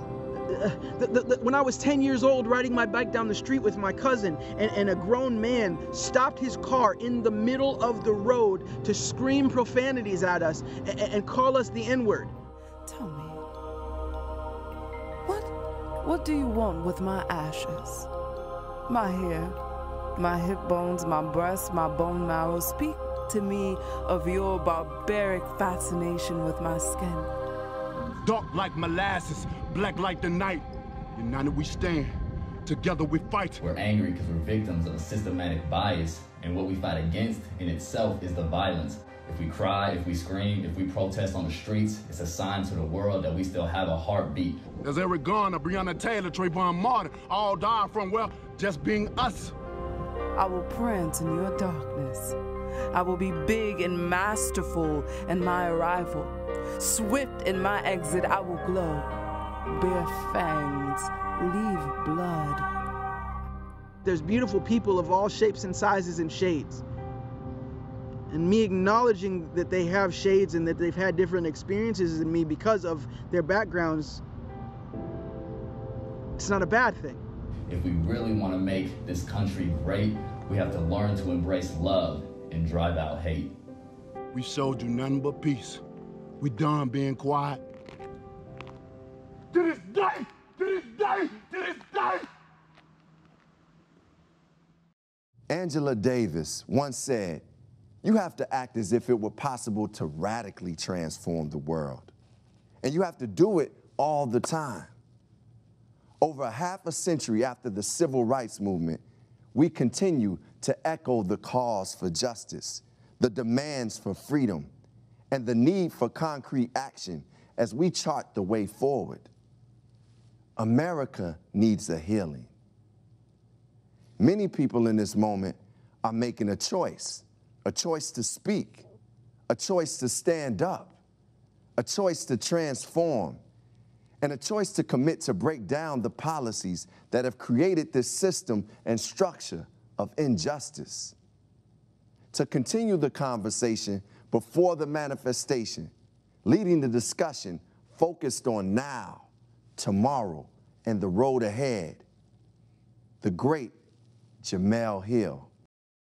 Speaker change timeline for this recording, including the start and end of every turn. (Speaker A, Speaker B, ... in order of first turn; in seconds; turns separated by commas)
Speaker A: 0.5-12.3, Speaker B: 16.1-17.9, Speaker B: 18.9-19.5, Speaker B: 20.2-27.2, Speaker C: 28.2-33.6, Speaker D: 33.6-44.6, Speaker C: 44.8-49.5, Speaker B: 50.4-52.3, Speaker B: 52.9-56.3, Speaker B: 56.8-59.0, Speaker B: 59.8-62.6, Speaker A: 64.0-66.8, Speaker A: 68.3-74.2, Speaker A: 76.4-77.2, Speaker D: 77.7-83.5, Speaker C: 84.3-85.8, Speaker C: 86.4-87.6, Speaker C: 89.5-92.3, Speaker E: 95.5-97.4, Speaker E: 98.0-102.1, Speaker E: 102.8-104.9, Speaker E: 106.2-109.0, Speaker E: 109.5-114.7, Speaker E: 115.3-119.3, Speaker E: 120.6-122.5, Speaker E: 124.2-128.8, Speaker E: 129.5-130.9, Speaker E: 131.8-133.4, Speaker E: 134.2-141.1, Speaker E: 142.3-145.9, Speaker E: 146.4-152.0, Speaker E: 153.2-153.7, Speaker E: 154.4-155.5